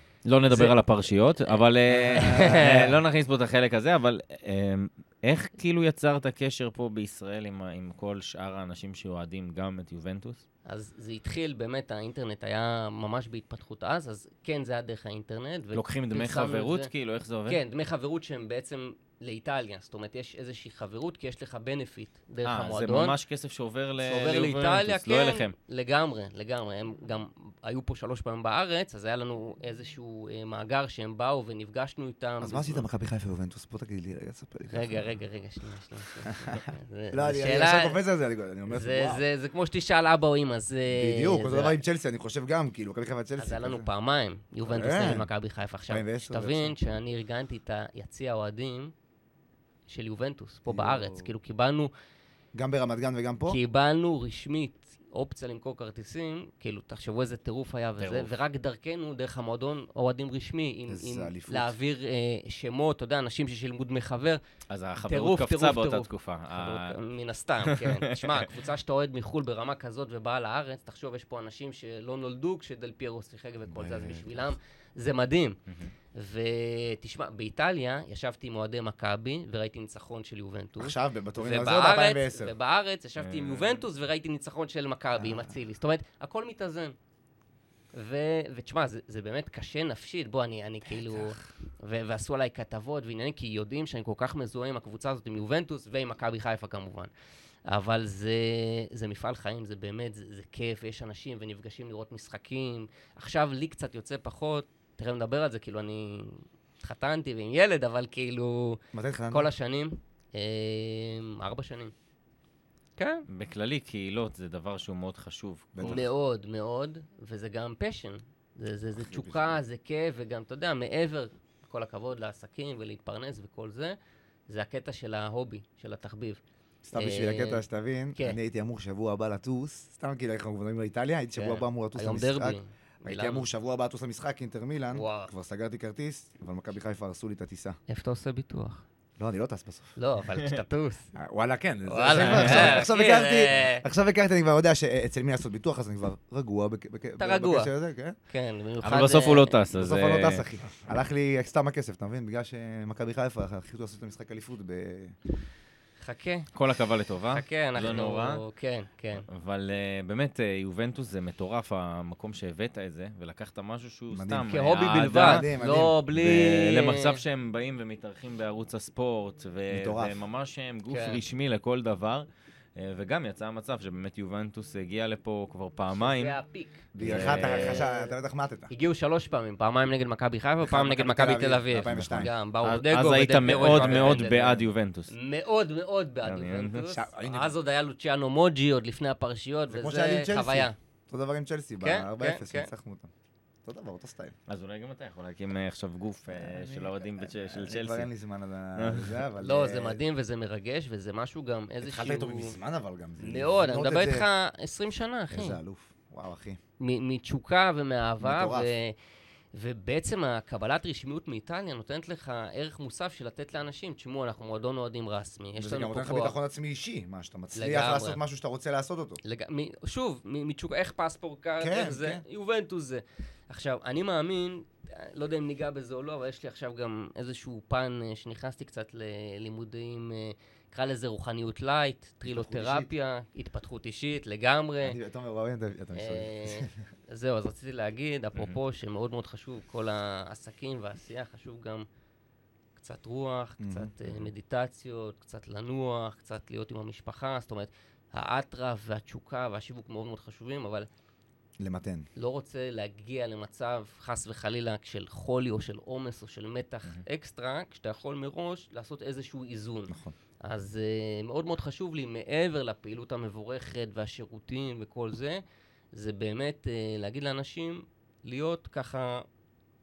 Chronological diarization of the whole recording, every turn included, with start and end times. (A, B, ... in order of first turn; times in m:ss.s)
0:00.2-0:10.4 A
0:00.5-0:00.8 B
0:01.4-0:02.9 B
0:02.0-0:02.9 C
0:10.7-0:16.9 B
0:15.7-0:17.6 A
0:17.5-0:23.2 B
0:22.4-0:25.5 A
0:24.0-0:32.8 B
0:32.4-0:35.1 C
0:34.7-0:38.0 B
0:37.1-0:39.2 C
0:38.7-0:41.8 B
0:40.9-0:43.9 C
0:43.4-0:48.9 B
0:44.6-0:45.3 C
0:45.9-0:46.8 C
0:49.9-0:51.9 B
0:50.7-0:51.3 C
0:52.6-0:53.6 C
0:53.5-1:04.4 B
0:58.0-0:58.3 A
1:00.9-1:01.8 C
1:04.7-1:07.0 A
1:05.0-1:15.6 B
1:07.6-1:08.5 A
1:13.7-1:14.6 C
1:15.7-1:15.9 A
1:16.1-1:27.0 B
1:20.8-1:22.5 C
1:23.2-1:23.8 A
1:25.2-1:25.5 C
1:27.9-1:37.1 B
1:31.0-1:31.4 C
1:37.7-1:51.9 B
1:48.9-1:49.5 C
1:53.0-1:53.2 B
1:53.3-1:56.0 A
1:55.8-1:56.1 C
1:55.8-2:04.0 B
1:59.0-1:59.6 C
2:04.5-2:06.4 B
2:06.8-2:17.8 C
2:07.0-2:07.6 B
2:11.4-2:13.5 B
2:14.9-2:15.3 B
2:17.9-2:18.8 B
2:19.2-2:20.0 C
2:20.0-2:21.1 B
2:21.2-2:28.2 C
2:21.9-2:23.8 B
2:22.1-2:22.9 A
2:27.2-2:27.7 B
2:28.3-2:29.6 B
2:28.8-2:30.4 A
2:29.7-2:35.2 C
2:36.0-2:36.5 B
2:36.5-2:38.4 A
2:37.3-2:39.3 B
2:39.3-2:45.5 A
2:44.1-2:44.6 C
2:44.5-2:47.2 B
2:45.1-2:46.0 C
2:46.1-2:56.4 A
2:49.7-2:50.2 C
2:50.9-2:51.2 B
2:55.9-2:58.1 B
2:56.9-2:58.7 C
2:57.0-2:57.8 A
2:58.7-3:10.8 B
3:00.6-3:02.3 C
3:02.6-3:05.1 A
3:03.5-3:04.6 C
3:06.2-3:06.9 A
3:06.9-3:07.6 C
3:09.7-3:13.1 C
3:11.8-3:12.7 B
3:13.6-3:14.4 C
3:14.5-3:18.1 A
3:16.3-3:20.0 C
3:18.8-3:19.2 A
3:19.4-3:22.6 B
3:21.8-3:24.3 C
3:23.2-3:25.6 B
3:25.3-3:26.6 C
3:26.8-3:29.0 B
3:28.2-3:28.7 C
3:29.5-3:36.4 B
3:35.6-3:39.2 C
3:37.6-3:38.2 B
3:39.2-3:55.0 B
3:41.6-3:42.2 C
3:52.3-3:52.9 C
3:54.8-3:56.7 C
3:56.0-4:01.9 B
4:02.8-4:10.9 B
4:03.6-4:04.3 C
4:11.6-4:12.1 C
4:12.2-4:25.4 B
4:19.9-4:20.2 C
4:25.9-4:29.3 B